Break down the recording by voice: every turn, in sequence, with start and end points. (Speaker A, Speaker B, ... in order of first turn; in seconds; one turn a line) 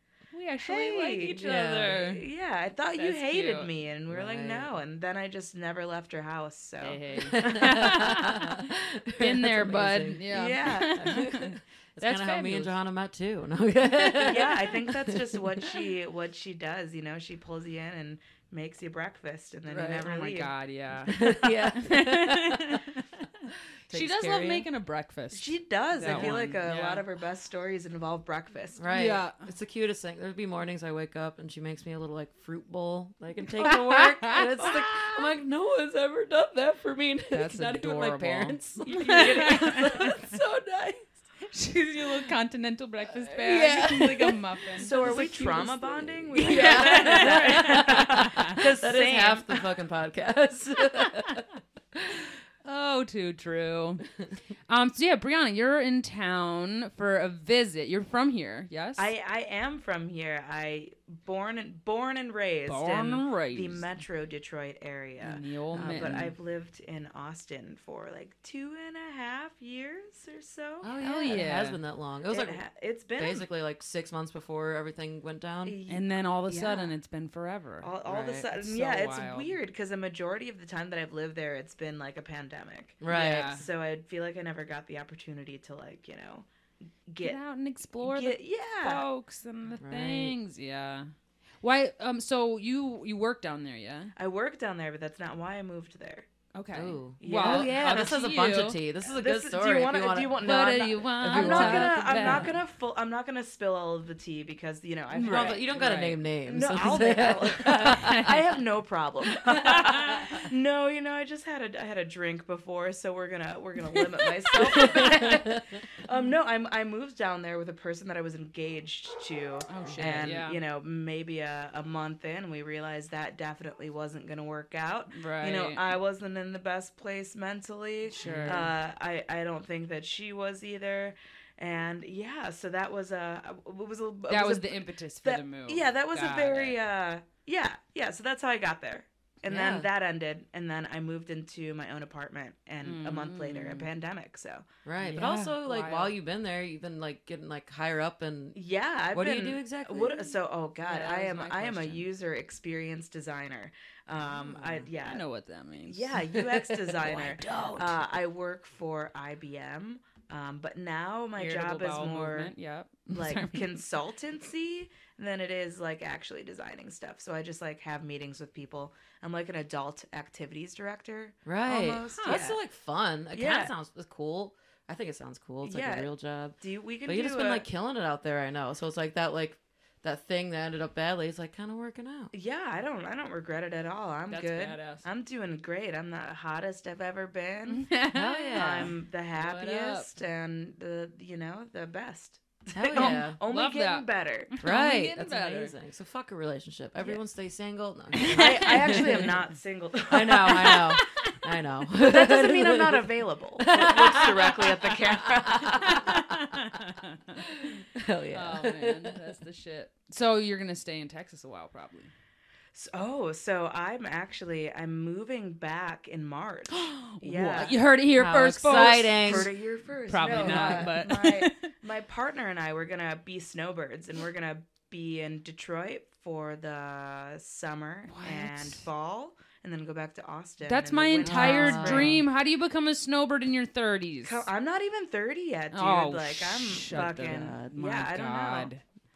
Speaker A: 0.3-2.2
Speaker B: 0.7-8.1
Speaker C: 1.4-1.9
Speaker A: 3.0-3.7
Speaker C: 4.1-4.7
Speaker A: 6.8-8.6
Speaker C: 7.3-10.2
Speaker A: 9.2-12.7
Speaker B: 10.3-11.1
Speaker C: 10.8-15.4
Speaker B: 14.1-20.5
Speaker A: 19.7-27.1
Speaker C: 21.1-22.8
Speaker C: 23.9-24.7
Speaker B: 25.3-28.9
Speaker C: 26.0-26.5
Speaker C: 28.8-41.1
Speaker A: 28.9-29.4
Speaker A: 33.5-35.3
Speaker A: 37.3-40.2
Speaker B: 38.8-40.1
Speaker A: 41.4-45.2
Speaker C: 43.2-52.2
Speaker B: 44.8-49.6
Speaker A: 46.3-48.6
Speaker A: 52.6-54.0
Speaker A: 54.7-59.1
Speaker B: 59.0-70.9
Speaker A: 62.6-63.8
Speaker A: 65.2-66.3
Speaker C: 65.7-66.3
Speaker C: 70.8-72.6
Speaker A: 71.0-71.8
Speaker B: 72.3-73.5
Speaker C: 73.2-75.8
Speaker B: 75.6-77.0
Speaker A: 75.9-77.9
Speaker B: 77.8-86.5
Speaker C: 78.0-78.5
Speaker A: 78.5-79.5
Speaker C: 83.0-83.5
Speaker A: 83.0-83.6
Speaker B: 87.1-87.4
Speaker A: 87.2-91.1
Speaker B: 88.0-89.0
Speaker C: 89.8-90.3
Speaker A: 91.6-94.1
Speaker B: 94.2-96.2
Speaker A: 96.5-98.8
Speaker C: 96.7-100.5
Speaker B: 97.2-98.1
Speaker B: 99.0-105.9
Speaker A: 100.4-102.6
Speaker C: 101.2-102.6
Speaker A: 105.1-106.2
Speaker C: 105.2-108.3
Speaker B: 106.5-144.7
Speaker A: 107.5-108.4
Speaker A: 109.5-110.1
Speaker C: 109.5-110.4
Speaker A: 114.5-115.0
Speaker C: 114.8-115.6
Speaker A: 119.7-120.6
Speaker A: 125.1-125.8
Speaker A: 128.1-128.7
Speaker C: 128.2-128.7
Speaker A: 134.3-136.8
Speaker C: 139.5-139.9
Speaker A: 142.8-143.9
Speaker C: 144.8-148.6
Speaker A: 145.0-146.1
Speaker B: 148.5-155.2
Speaker C: 149.1-150.3
Speaker A: 150.8-152.1
Speaker C: 154.4-154.9
Speaker A: 155.0-156.1
Speaker B: 155.9-162.5
Speaker C: 156.3-158.0
Speaker A: 161.3-163.8
Speaker B: 163.1-172.6
Speaker C: 171.4-182.3
Speaker A: 172.1-172.5
Speaker B: 173.3-173.7
Speaker B: 175.6-177.6
Speaker B: 182.3-187.9
Speaker A: 184.3-185.0
Speaker A: 187.7-190.1
Speaker C: 188.1-188.9
Speaker B: 188.6-194.5
Speaker C: 192.7-193.4
Speaker A: 192.9-195.7
Speaker C: 194.6-199.4
Speaker A: 198.1-199.3
Speaker B: 198.2-201.0
Speaker C: 200.1-206.3
Speaker A: 200.5-201.3
Speaker B: 201.9-206.2
Speaker A: 205.8-207.4
Speaker C: 207.6-209.2
Speaker A: 208.3-212.1
Speaker B: 212.7-217.8
Speaker A: 216.7-219.5
Speaker C: 218.2-219.5
Speaker B: 218.7-232.2
Speaker A: 220.1-221.6
Speaker C: 220.2-221.0
Speaker A: 228.1-228.9
Speaker A: 230.6-234.5
Speaker C: 231.2-232.2
Speaker B: 234.2-238.7
Speaker A: 235.7-238.8